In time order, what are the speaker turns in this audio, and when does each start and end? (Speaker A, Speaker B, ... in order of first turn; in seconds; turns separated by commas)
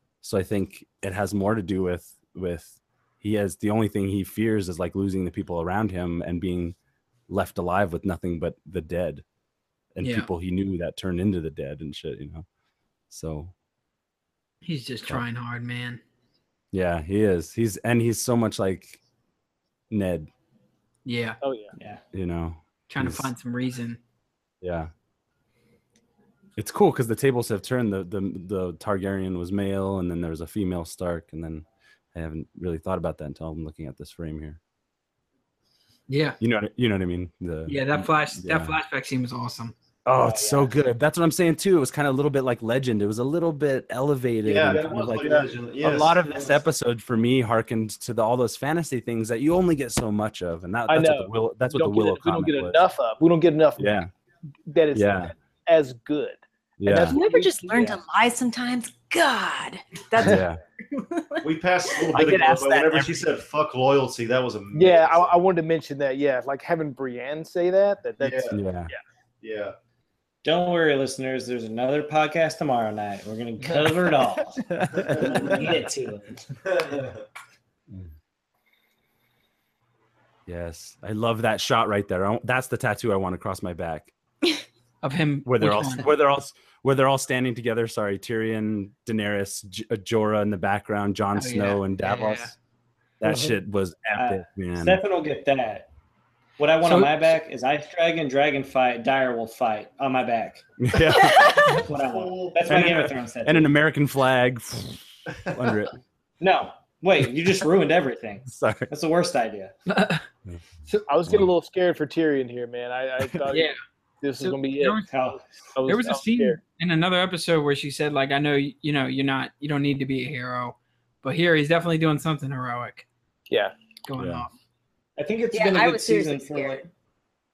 Speaker A: 0.2-6.8, Speaker A: 7.3-9.2, Speaker A: 9.9-12.4, Speaker B: 10.0-10.3, Speaker A: 13.1-13.5, Speaker B: 14.6-16.0, Speaker A: 16.7-19.0, Speaker A: 19.9-20.3, Speaker B: 21.0-21.4, Speaker C: 21.4-21.7, Speaker D: 21.8-22.0, Speaker A: 22.1-23.3, Speaker B: 22.9-24.0, Speaker A: 24.6-24.9, Speaker A: 26.6-34.6, Speaker B: 36.1-36.4, Speaker A: 36.4-38.8, Speaker B: 37.6-39.7, Speaker A: 40.0-52.8, Speaker D: 40.1-40.7, Speaker E: 44.4-46.4, Speaker C: 50.9-54.0, Speaker A: 53.8-54.1, Speaker C: 54.7-58.0, Speaker A: 54.9-55.3, Speaker A: 56.8-57.2, Speaker F: 57.1-61.5, Speaker A: 60.2-60.6, Speaker E: 61.4-65.3, Speaker A: 62.1-63.3, Speaker C: 64.7-69.0, Speaker E: 68.2-68.5, Speaker A: 68.5-68.9, Speaker E: 69.4-69.7, Speaker D: 70.4-76.4, Speaker A: 74.7-75.5, Speaker E: 76.7-77.2, Speaker A: 80.5-84.1, Speaker B: 85.0-86.0, Speaker A: 85.4-92.5, Speaker B: 91.3-92.5, Speaker A: 93.2-95.0, Speaker D: 94.1-95.9, Speaker D: 96.6-100.6, Speaker B: 96.8-97.3, Speaker A: 100.8-101.8, Speaker F: 101.0-101.8, Speaker E: 101.4-103.0, Speaker D: 101.6-103.7, Speaker A: 102.7-105.9, Speaker E: 105.3-105.8, Speaker D: 106.4-109.7, Speaker A: 108.5-108.9, Speaker B: 109.9-110.2, Speaker C: 111.1-113.7, Speaker B: 113.5-113.8, Speaker C: 114.2-115.0, Speaker B: 114.4-115.2, Speaker D: 115.1-115.4, Speaker C: 115.7-116.6, Speaker B: 115.8-123.0, Speaker B: 124.0-124.5, Speaker A: 124.2-124.5, Speaker D: 125.2-126.8, Speaker F: 125.5-126.9